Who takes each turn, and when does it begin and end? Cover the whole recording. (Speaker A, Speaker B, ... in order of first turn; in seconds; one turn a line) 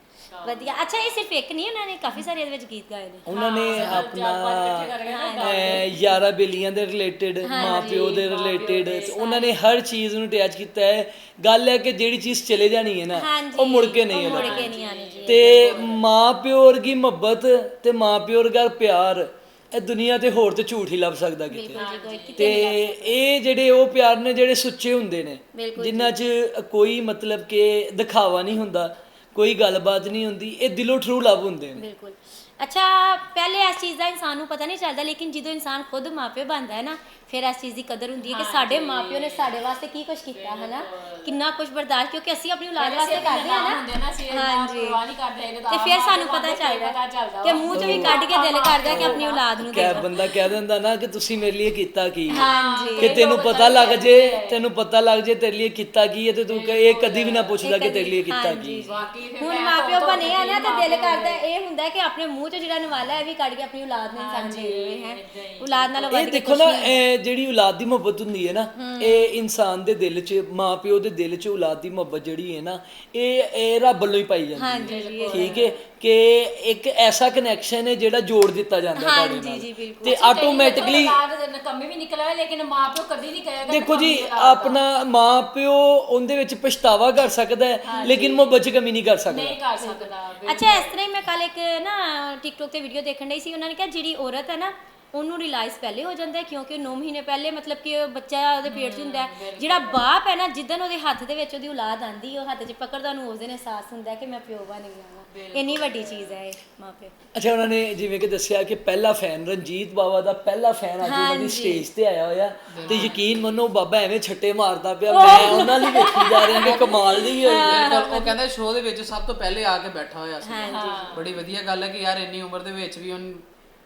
Speaker A: 0.3-0.8
Speaker B: 0.4-3.3
Speaker C: 3.3-14.7
Speaker A: 3.3-6.1
Speaker D: 3.7-4.0
Speaker B: 5.0-5.9
Speaker B: 7.4-8.3
Speaker A: 8.0-9.2
Speaker B: 9.2-9.5
Speaker B: 13.1-15.8
Speaker A: 14.1-16.0
Speaker C: 15.2-31.8
Speaker B: 21.5-23.2
Speaker A: 21.7-22.6
Speaker B: 25.5-26.1
Speaker B: 31.8-45.0
Speaker A: 38.2-39.7
Speaker A: 40.3-41.4
Speaker A: 42.8-50.2
Speaker B: 45.7-50.2
Speaker D: 47.7-48.1
Speaker C: 47.7-48.2
Speaker C: 48.8-58.9
Speaker B: 52.3-53.2
Speaker A: 52.3-54.6
Speaker A: 56.5-57.6
Speaker B: 57.6-67.0
Speaker A: 58.9-61.4
Speaker A: 64.1-66.2
Speaker C: 66.1-81.2
Speaker B: 68.7-69.3
Speaker B: 74.5-75.5
Speaker A: 74.8-75.8
Speaker B: 78.9-81.0
Speaker A: 80.1-84.8
Speaker C: 83.7-89.6
Speaker A: 87.8-88.6
Speaker B: 87.9-88.2
Speaker A: 89.2-91.0
Speaker B: 89.8-107.1
Speaker A: 98.6-100.1
Speaker A: 105.3-106.4
Speaker C: 107.3-118.0
Speaker B: 111.0-111.8
Speaker D: 112.7-113.1
Speaker A: 112.8-113.3
Speaker B: 115.1-118.3
Speaker A: 115.1-115.4
Speaker D: 116.6-123.5
Speaker B: 120.4-121.2
Speaker A: 120.6-121.3